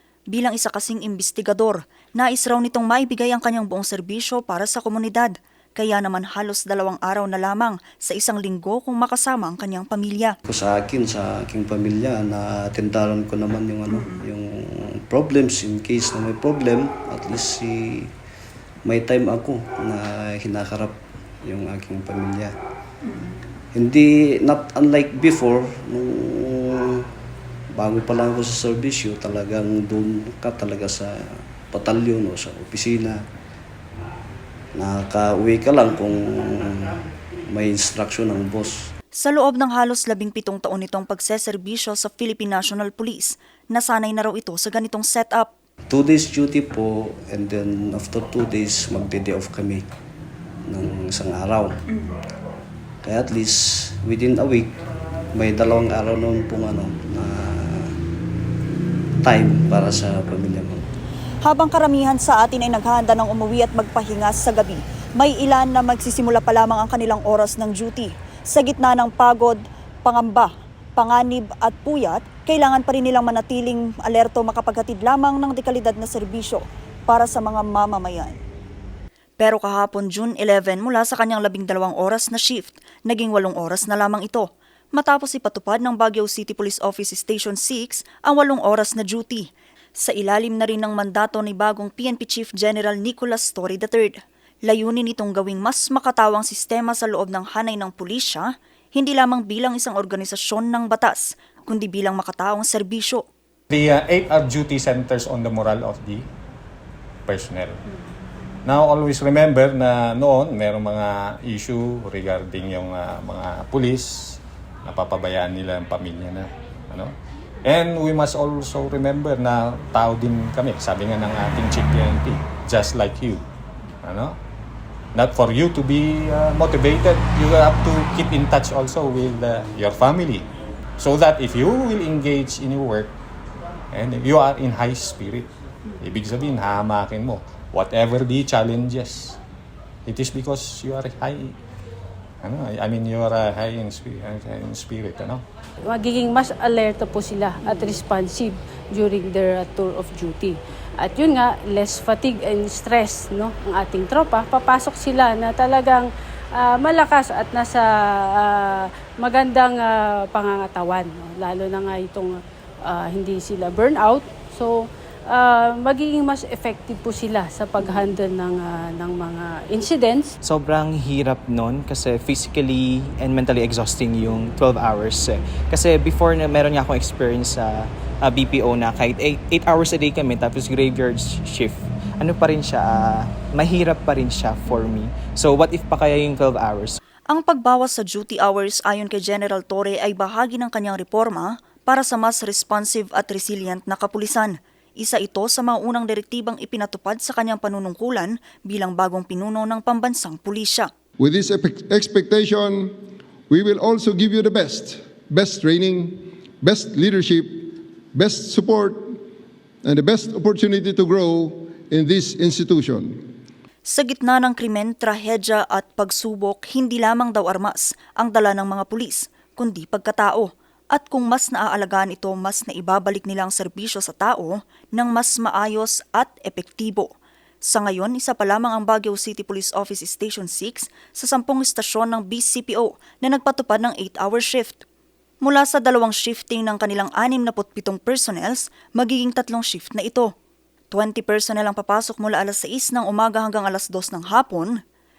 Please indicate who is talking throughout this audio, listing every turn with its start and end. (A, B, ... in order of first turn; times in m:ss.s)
0:00.3-0:10.4 A
0:10.5-0:18.1 B
0:18.8-0:22.5 B
0:23.7-0:27.1 B
0:27.8-0:33.2 B
0:34.8-0:38.9 B
0:39.2-0:45.5 A
0:45.9-0:49.8 B
0:50.7-0:51.8 B
0:53.0-0:54.8 B
0:55.3-0:58.0 B
0:59.2-1:00.9 B
1:01.4-1:18.4 A
1:19.4-1:43.2 A
1:43.7-1:46.3 C
1:47.3-1:47.8 C
1:48.7-2:03.4 C
2:04.0-2:04.4 C
2:05.2-2:10.5 C
2:11.0-2:13.1 C
2:13.9-2:15.5 C
2:16.0-2:19.4 C
2:20.1-2:21.6 C
2:22.4-2:25.4 C
2:25.9-2:37.9 D
2:38.4-2:44.8 D
2:45.3-2:50.3 D
2:50.4-3:07.0 E
3:07.3-3:20.9 A
3:21.2-3:23.0 F
3:23.5-3:29.2 F
3:29.8-3:33.2 F
3:33.9-3:47.1 A
3:47.6-3:54.8 A
3:55.4-4:00.3 A
4:00.9-4:04.8 A